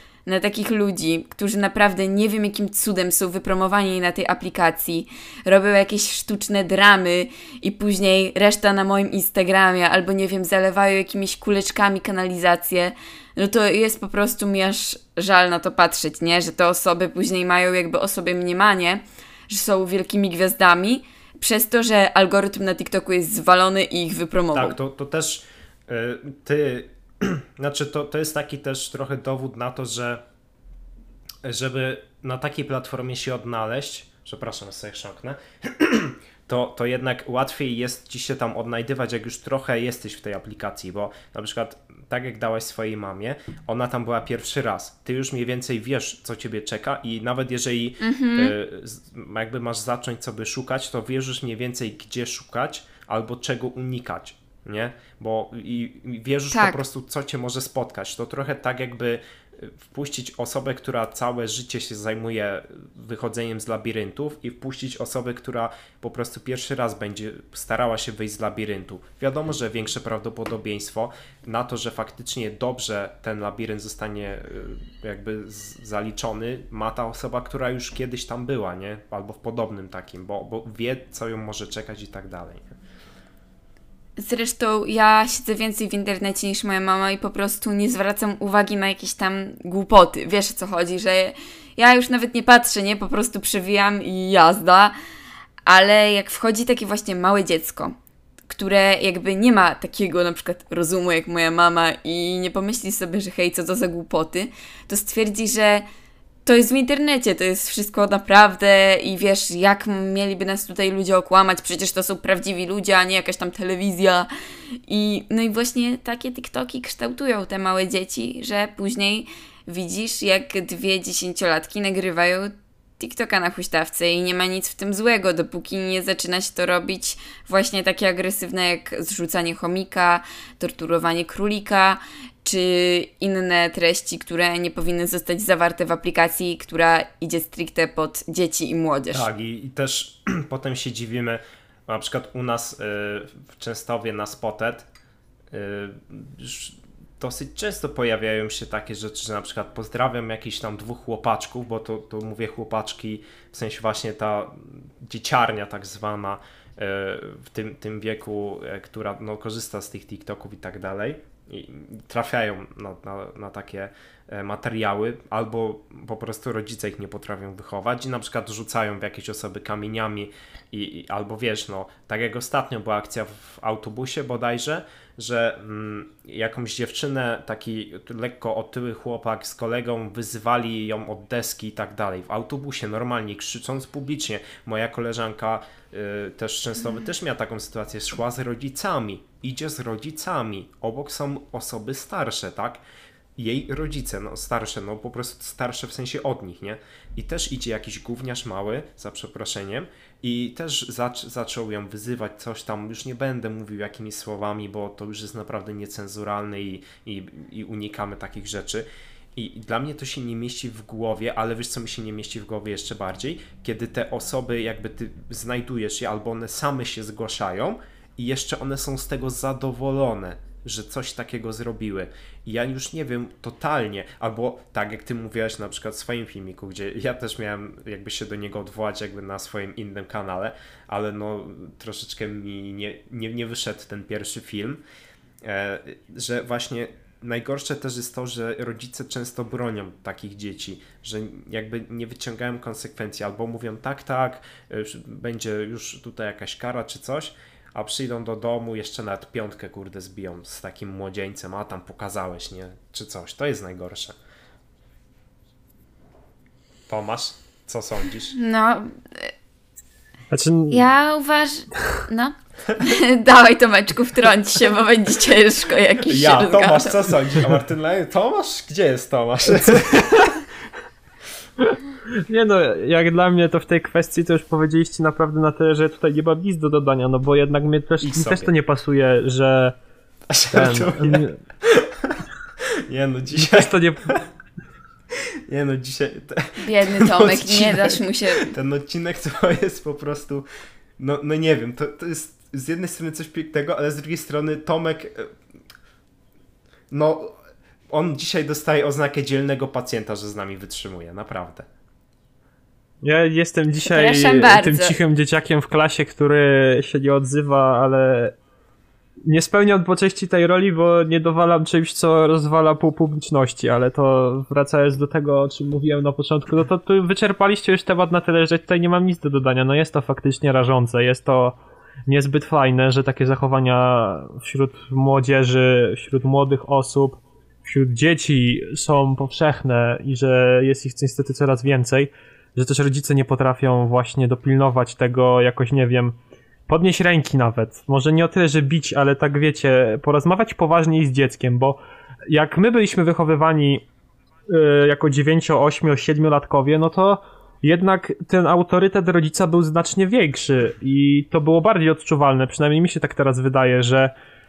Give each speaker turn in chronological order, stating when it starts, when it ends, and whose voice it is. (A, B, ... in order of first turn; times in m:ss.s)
0:00.2-0:24.8 A
0:24.5-0:30.2 B
0:31.4-1:22.7 B
0:48.0-0:48.5 A
0:56.5-0:56.8 A
1:24.2-1:34.9 A
1:35.6-1:37.9 A
1:38.5-1:45.8 A
1:46.4-1:54.3 A
1:54.9-2:19.3 A
2:19.1-2:24.8 B
2:25.5-3:12.8 B
3:13.4-3:54.8 B
3:55.4-4:14.1 B
4:16.9-4:18.4 B
4:18.3-4:19.3 A
4:20.3-4:20.8 C
4:20.7-4:27.1 A
4:26.0-4:30.4 B
4:29.7-4:30.2 C
4:31.7-4:39.8 C
4:38.0-4:38.5 B
4:40.3-4:42.2 B
4:40.5-4:41.4 C
4:42.9-4:44.2 B
4:43.3-4:44.1 C
4:45.5-4:50.4 B
4:46.6-4:48.5 A
4:51.0-4:55.3 B
4:56.9-4:57.3 B
4:57.9-5:01.6 B
5:03.0-5:08.3 C
5:03.9-5:05.0 A
5:09.2-5:41.8 C
5:42.3-5:43.8 C
5:44.5-5:54.1 C